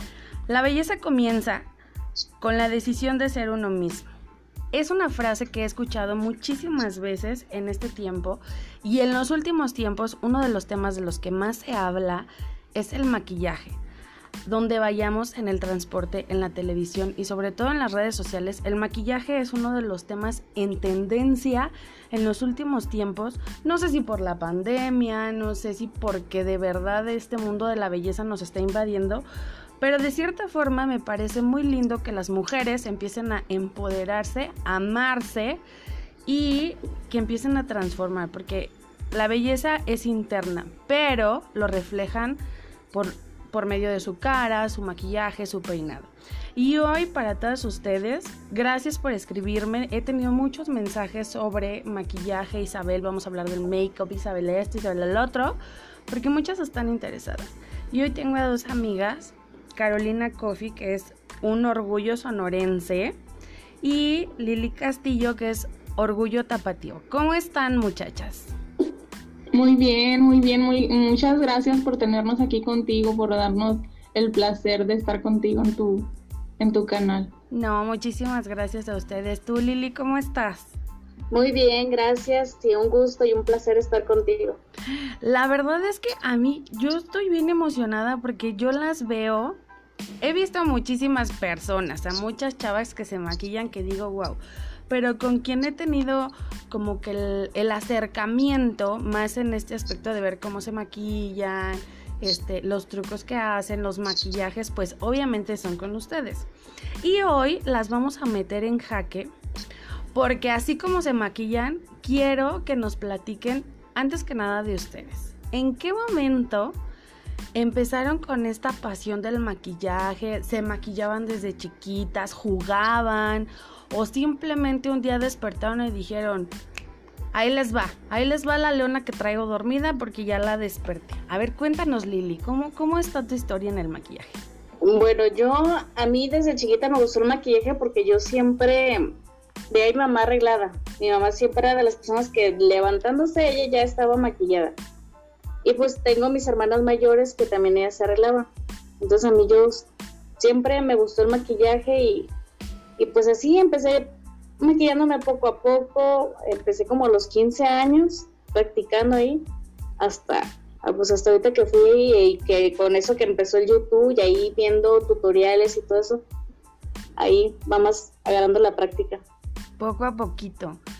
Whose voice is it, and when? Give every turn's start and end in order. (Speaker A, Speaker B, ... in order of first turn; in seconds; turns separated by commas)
Speaker A: 0.5-1.6, Speaker A: 2.4-4.1, Speaker A: 4.7-13.8, Speaker A: 14.4-29.2, Speaker A: 29.8-35.6, Speaker A: 36.2-42.4, Speaker A: 42.9-63.2, Speaker A: 63.8-68.5, Speaker B: 69.5-77.3, Speaker A: 77.5-80.8, Speaker C: 81.3-84.6, Speaker A: 85.2-89.6, Speaker A: 90.2-106.5, Speaker A: 107.0-109.3, Speaker A: 110.1-116.8, Speaker A: 117.5-126.5, Speaker A: 127.3-134.4, Speaker C: 134.8-139.1, Speaker C: 139.7-144.8, Speaker C: 145.6-149.8, Speaker C: 150.4-152.3, Speaker C: 153.0-154.1, Speaker C: 154.6-159.4, Speaker C: 160.0-166.2, Speaker C: 167.2-169.2, Speaker A: 169.8-170.8